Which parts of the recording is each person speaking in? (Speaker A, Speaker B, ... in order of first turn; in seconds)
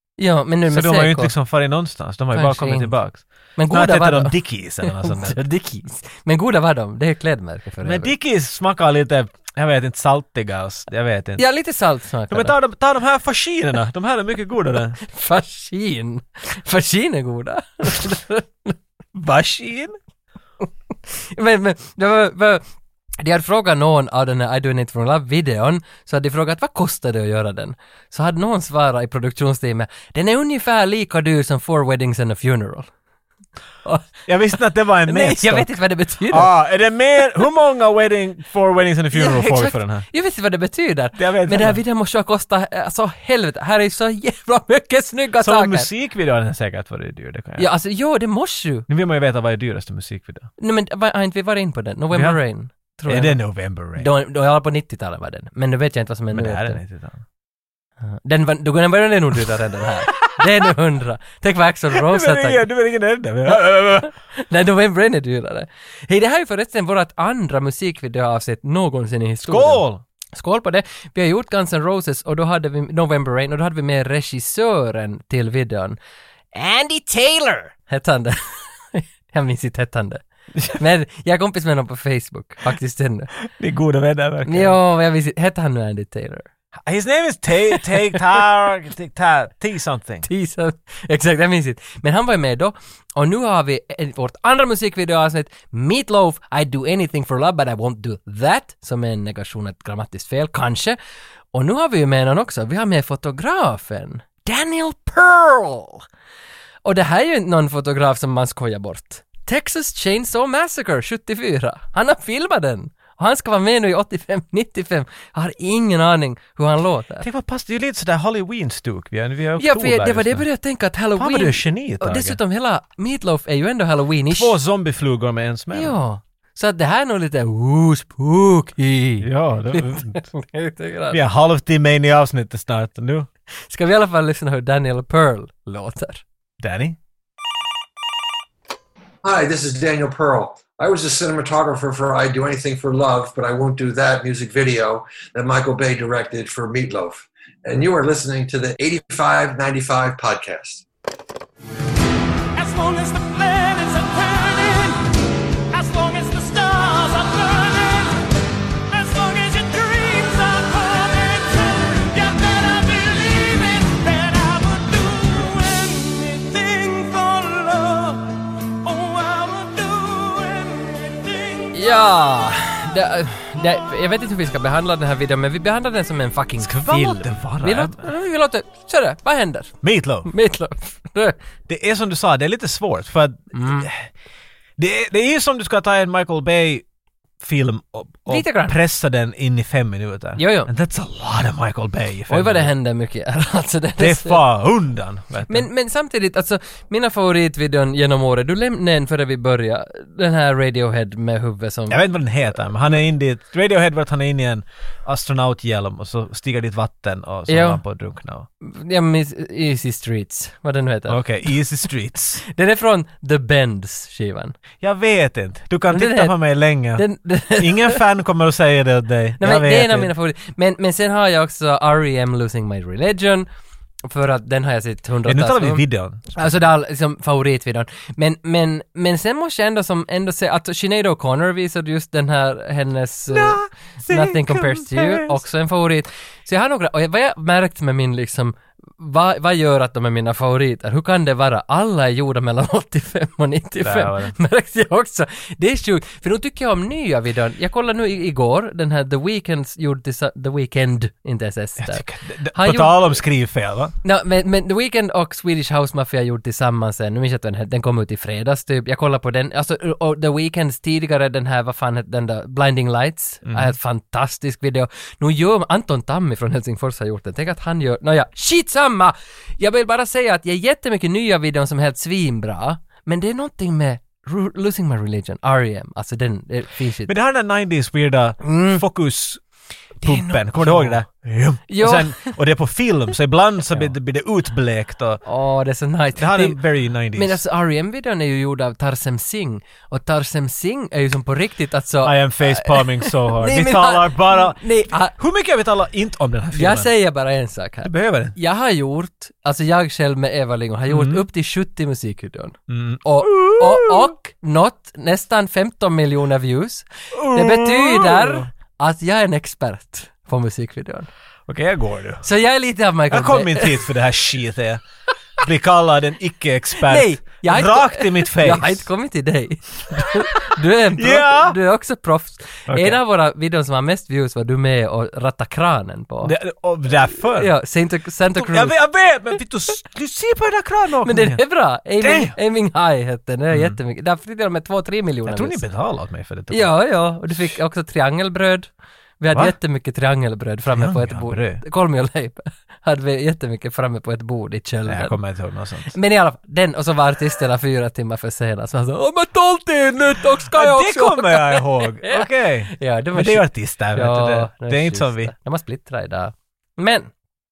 Speaker A: 0.2-1.3, 2.3-2.9, 3.6-8.1, 11.4-12.6, 15.0-18.8, 21.1-22.6, 23.2-32.9, 35.0-36.5, 39.1-45.9, 47.6-48.9, 50.6-53.4, 54.0-56.8, 58.0-62.7, 63.5-76.0, 76.5-78.4, 78.9-83.3, 84.5-86.5, 90.3-101.0, 101.5-106.0, 106.8-117.3, 119.6-124.5, 125.7-131.2, 133.7-136.2, 171.7-179.8, 180.3-181.4, 183.5-183.9, 188.3-188.8, 190.4-190.7, 192.3-194.4, 195.5-202.0, 207.5-207.8, 208.6-211.2, 212.5-214.6, 215.9-216.3, 217.0-218.0, 219.4-223.5, 224.1-253.2, 254.0-277.1, 278.4-278.8, 280.0-281.0, 281.7-282.3, 285.2-286.6, 287.1-295.1, 296.5-311.1, 312.2-313.9, 316.8-326.4, 327.4-328.8, 331.1-335.6, 336.5-345.2, 345.9-357.1
Speaker B: 0.7-5.4, 7.8-11.4, 12.3-15.0, 19.1-20.0, 34.3-40.0, 41.2-41.8, 45.4-47.7, 48.9-50.5, 52.1-52.4, 53.1-54.1, 56.3-57.2, 61.9-64.1, 69.5-70.0, 83.5-84.8, 86.8-90.3, 117.2-120.5, 121.2-122.4, 124.3-126.0, 129.2-130.2, 131.1-133.3, 136.6-137.0, 176.6-178.1, 179.8-180.3, 181.7-184.1, 184.8-186.8, 187.4-192.7, 194.0-195.7, 201.9-208.5, 211.1-212.4, 214.8-217.1, 217.6-220.1, 225.2-226.5, 233.3-235.4, 243.8-244.3, 251.8-253.9, 263.4-263.7, 277.1-279.4, 280.0-285.2, 286.2-287.4, 292.0-296.9, 297.8-298.4, 300.9-301.2, 302.7-304.1, 307.1-308.5, 311.5-312.2, 313.1-314.8, 315.4-318.9, 321.0-321.6, 322.7-323.0, 326.2-327.5, 328.4-331.4, 332.0-332.4, 333.5-333.8, 335.3-336.7, 340.7-341.6, 344.9-345.9, 350.5-355.3
Speaker C: 139.2-150.8
Speaker D: 152.6-155.1, 155.7-158.3, 158.9-171.8